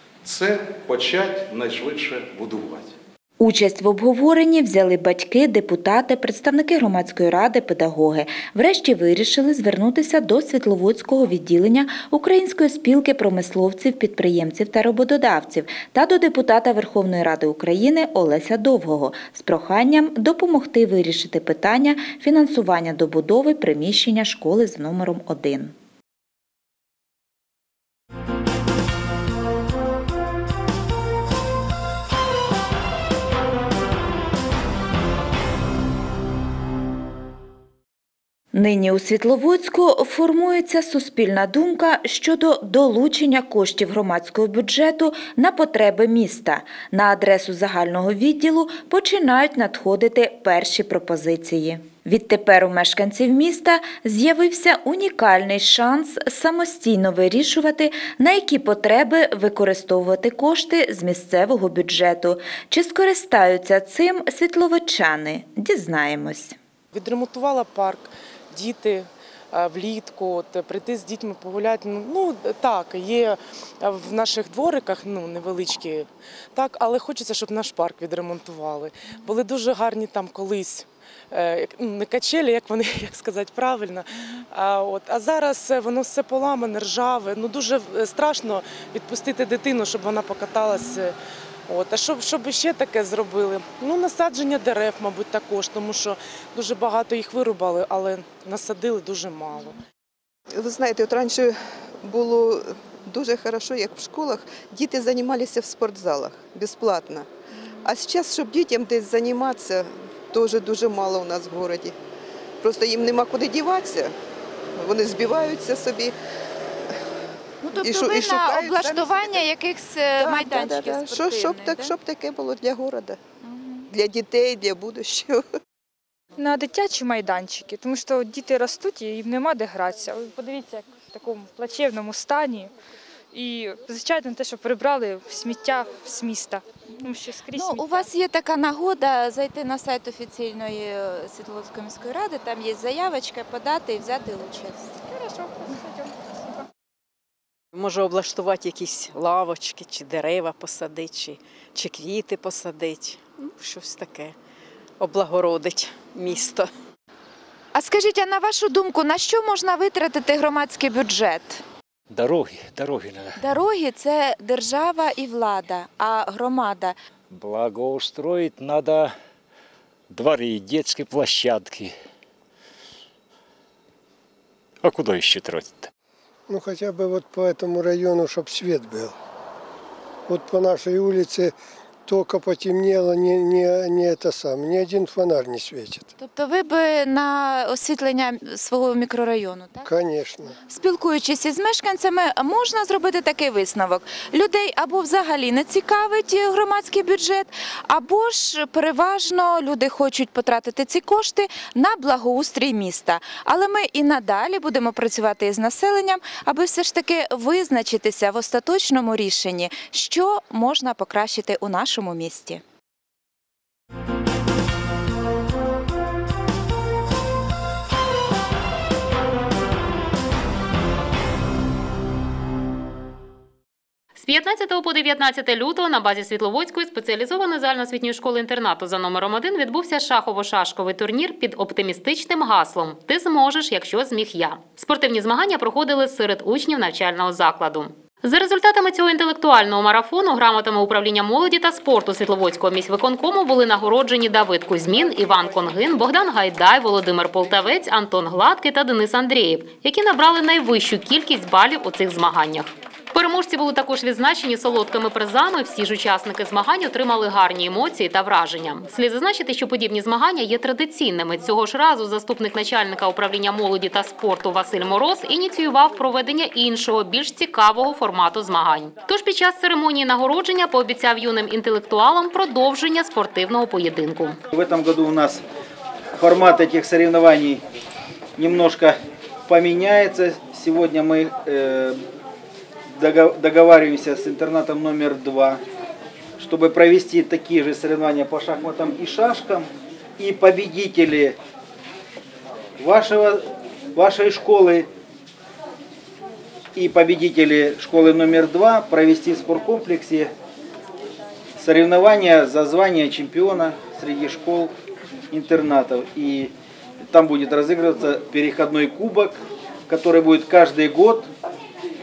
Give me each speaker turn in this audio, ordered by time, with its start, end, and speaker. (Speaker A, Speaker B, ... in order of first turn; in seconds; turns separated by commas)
Speaker A: 0.2-2.9, Speaker B: 3.4-25.7, Speaker B: 38.5-66.6, Speaker C: 66.9-91.1, Speaker C: 91.7-99.8, Speaker D: 100.6-107.3, Speaker D: 107.8-112.0, Speaker D: 112.6-114.1, Speaker D: 114.8-116.2, Speaker D: 117.8-119.5, Speaker B: 118.7-121.7, Speaker D: 120.2-123.2, Speaker D: 123.9-125.4, Speaker E: 126.4-132.7, Speaker E: 133.3-138.1, Speaker F: 137.6-144.7, Speaker B: 139.6-140.6, Speaker B: 141.7-144.7, Speaker E: 145.1-146.4, Speaker G: 147.7-154.3, Speaker G: 155.0-156.7, Speaker F: 157.8-161.6, Speaker H: 162.1-163.4, Speaker F: 163.4-166.9, Speaker B: 164.7-165.6, Speaker H: 167.3-169.2, Speaker H: 170.1-171.9, Speaker H: 174.8-175.9, Speaker I: 176.5-179.1, Speaker I: 180.3-181.5, Speaker I: 182.1-186.0, Speaker F: 186.2-189.8, Speaker I: 189.9-190.5, Speaker F: 190.7-212.6, Speaker B: 191.8-192.1, Speaker B: 193.2-193.8, Speaker B: 199.8-200.5, Speaker B: 201.8-202.2, Speaker B: 202.7-203.5, Speaker B: 204.1-204.7, Speaker B: 205.6-205.8, Speaker B: 206.4-206.9, Speaker B: 207.7-209.1, Speaker B: 210.9-212.0, Speaker J: 224.2-274.4, Speaker K: 274.5-275.4, Speaker K: 276.2-277.6, Speaker K: 278.4-279.0, Speaker K: 279.5-282.0, Speaker K: 282.9-285.6, Speaker K: 286.4-289.7, Speaker K: 290.2-291.4, Speaker K: 292.8-294.9, Speaker K: 296.8-300.3, Speaker K: 301.6-304.7, Speaker K: 305.3-306.5, Speaker K: 307.1-309.4, Speaker K: 309.9-311.3